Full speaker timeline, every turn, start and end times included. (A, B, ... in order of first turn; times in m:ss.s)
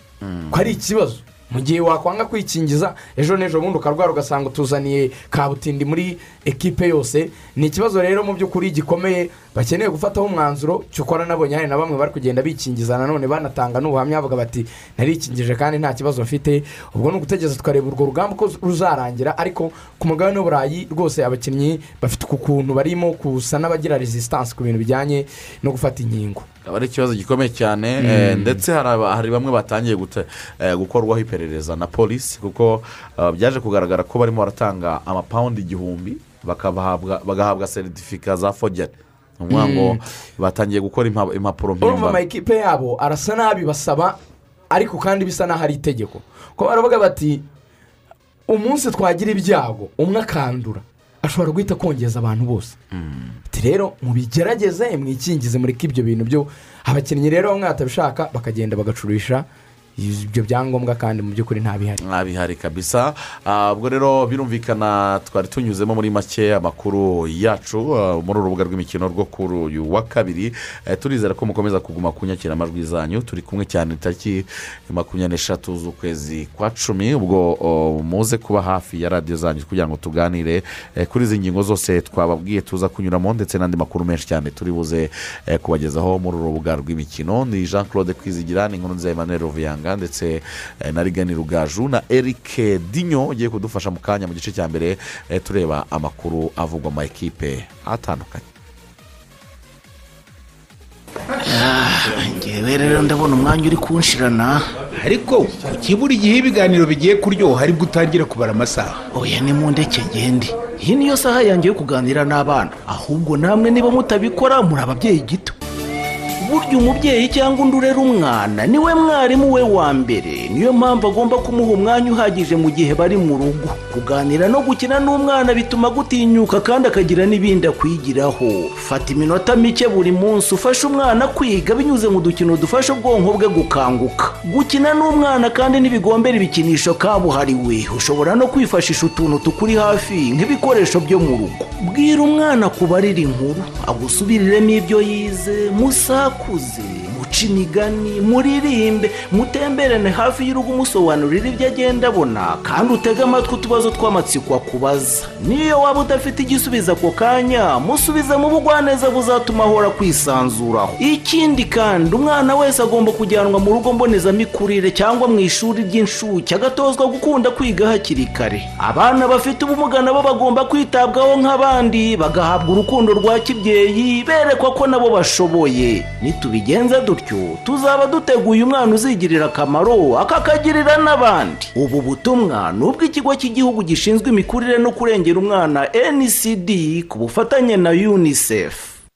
0:00.2-0:00.6 A
0:00.5-0:26.4 B
0:26.6-0:42.2 A
0:28.0-0:28.6 B
0:39.5-0:40.0 B
0:41.8-0:44.2 B
0:44.7-0:47.4 B
0:48.5-0:52.8 B
0:52.9-0:53.3 A
0:53.5-0:59.4 B
1:00.0-1:02.0 B
1:02.0-1:38.4 A
1:41.4-1:44.7 C
1:45.0-1:49.0 D
1:49.1-1:55.6 C
1:56.4-3:08.9 C